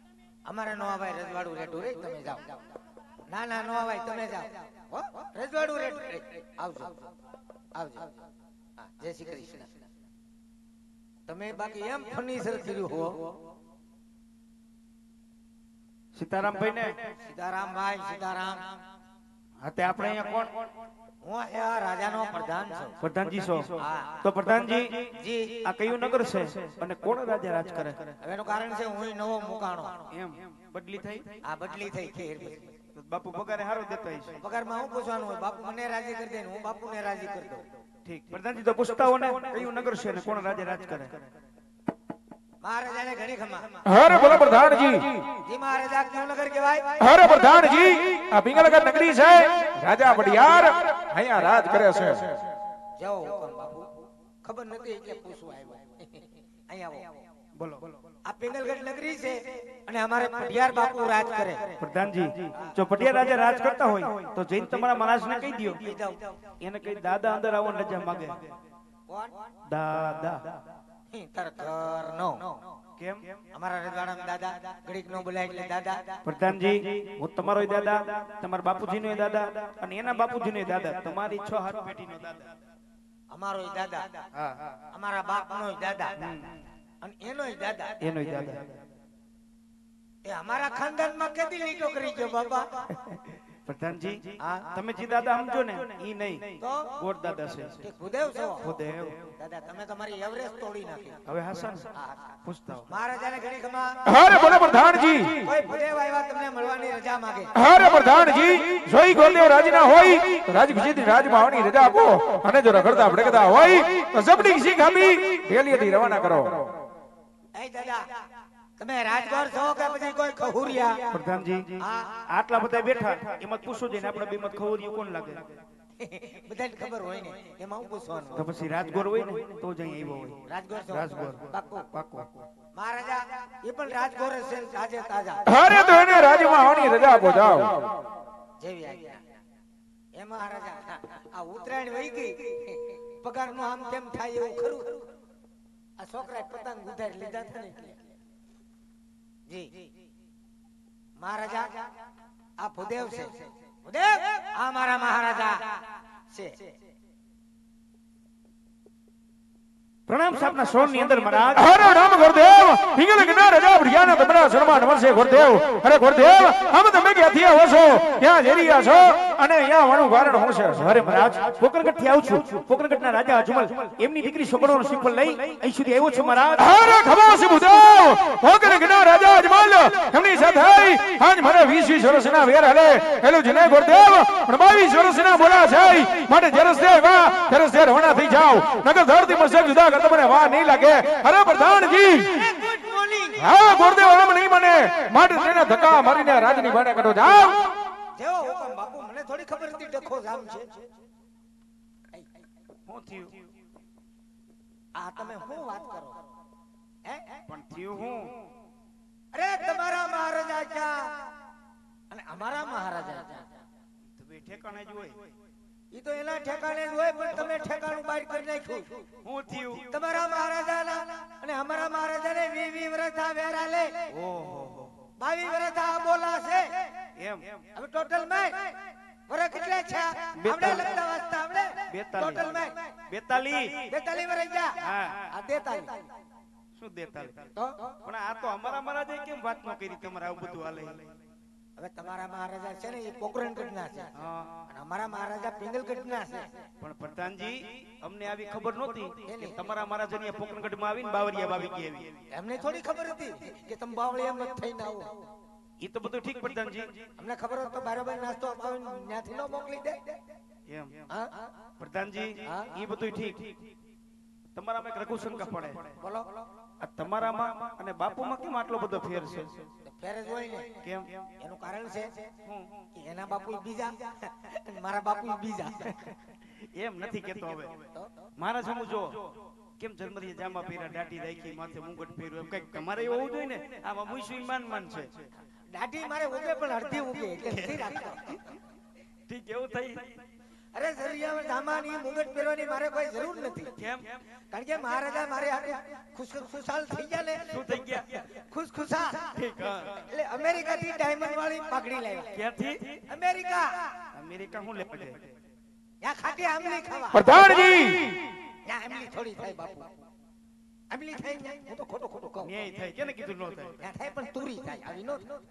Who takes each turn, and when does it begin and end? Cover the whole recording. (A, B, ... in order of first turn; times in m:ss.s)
0:00.5-0:02.6 A
0:03.3-0:07.1 A
0:07.8-0:08.2 A
0:08.8-0:09.7 A
0:11.3-0:13.3 A
0:16.2-0:17.0 B
0:17.2-0:18.8 A
0:19.6-0:20.7 B
0:21.2-0:23.0 A
0:23.0-0:28.2 B
0:23.8-0:24.2 A
0:25.0-0:25.7 A
0:28.2-0:30.1 A
0:30.1-0:31.4 B
0:31.4-0:32.7 A
0:33.0-0:34.4 B
0:34.4-0:37.7 A
0:38.0-0:41.2 B
0:42.6-0:43.8 A
0:43.8-0:45.2 C
0:45.4-0:47.2 A
0:47.0-0:52.3 C
0:53.0-0:53.9 A
0:54.4-0:56.1 A
0:56.7-0:57.2 A
0:57.6-0:58.0 B
0:58.3-1:01.8 A
1:01.8-1:05.9 B
1:02.6-1:03.0 A
1:05.7-1:06.4 A
1:06.6-1:08.4 B
1:09.1-1:09.5 A
1:09.7-1:10.6 B
1:11.1-1:12.6 A
1:13.0-1:13.4 B
1:13.5-1:16.2 A
1:16.2-1:22.5 B
1:23.3-1:24.2 A
1:24.4-1:24.8 B
1:24.9-1:26.3 A
1:26.2-1:26.5 B
1:27.0-1:28.0 A
1:28.0-1:28.8 B
1:30.2-1:33.0 A
1:33.1-1:37.8 B
1:34.4-1:34.7 A
1:36.6-1:37.0 A
1:37.8-1:38.7 A
1:38.6-1:39.3 B
1:39.4-1:41.2 A
1:41.3-1:42.9 B
1:42.0-1:42.3 A
1:42.9-1:44.0 A
1:44.0-1:45.5 C
1:45.3-1:47.5 A
1:47.6-1:56.8 C
1:57.6-1:58.1 A
1:58.8-2:01.1 A
2:01.1-2:05.5 B
2:01.8-2:02.2 A
2:06.0-2:08.5 A
2:08.4-2:12.4 B
2:10.5-2:11.9 A
2:12.8-2:15.5 A
2:15.5-2:18.0 C
2:18.6-2:19.2 A
2:20.2-2:25.1 A
2:26.0-2:28.0 A
2:29.5-2:29.9 A
2:31.2-2:31.8 A
2:32.6-2:36.7 A
2:40.1-2:41.8 B
2:41.6-2:51.0 C
2:50.7-2:56.8 B
2:56.6-3:12.4 C
3:12.3-3:13.5 A
3:13.4-3:17.7 C
3:18.2-3:20.8 A
3:22.9-3:23.4 B
3:25.0-3:26.2 A
3:27.0-3:27.4 A
3:27.5-3:28.3 B
3:29.3-3:31.3 A
3:32.1-3:33.6 A
3:34.2-3:35.2 B
3:35.9-3:39.0 A
3:39.2-3:39.9 B
3:39.8-3:44.1 A
3:44.1-3:45.0 B
3:45.2-3:46.9 A
3:47.2-3:47.6 B
3:47.8-3:53.0 A
3:50.4-3:51.0 B
3:51.9-3:53.9 B
3:53.8-3:56.1 A
3:54.8-3:55.2 B
3:56.8-3:57.5 B
3:57.6-3:57.9 A
3:58.0-4:01.1 B
4:01.8-4:04.1 A
4:04.2-4:04.6 B
4:04.7-4:06.5 A
4:06.8-4:12.2 B
4:09.2-4:09.6 A
4:12.3-4:15.1 A
4:15.8-4:17.1 B
4:17.2-4:20.2 A
4:20.7-4:21.1 B
4:21.8-4:23.7 B
4:22.5-4:22.7 A
4:24.6-4:26.0 B
4:26.0-4:26.4 A
4:26.8-4:29.6 B
4:29.9-4:30.8 A
4:30.8-4:31.3 B
4:31.4-4:32.3 A
4:32.4-4:32.9 B
4:33.0-4:36.2 A
4:36.8-4:37.7 B
4:38.4-4:45.3 B
4:45.7-4:48.5 A
4:49.3-4:50.2 B
4:50.7-4:53.8 A
4:53.8-4:54.2 B
4:54.5-4:57.6 A
4:57.5-4:58.2 B
4:58.3-4:59.3 A
4:59.3-5:00.0 B
5:00.0-5:02.3 A
5:02.3-5:03.0 B
5:03.1-5:03.9 A
5:04.1-5:05.3 B
5:06.0-5:07.4 A
5:07.1-5:08.3 C
5:08.6-5:09.9 A
5:10.9-5:12.6 A
5:12.4-5:13.8 B
5:13.8-5:15.4 A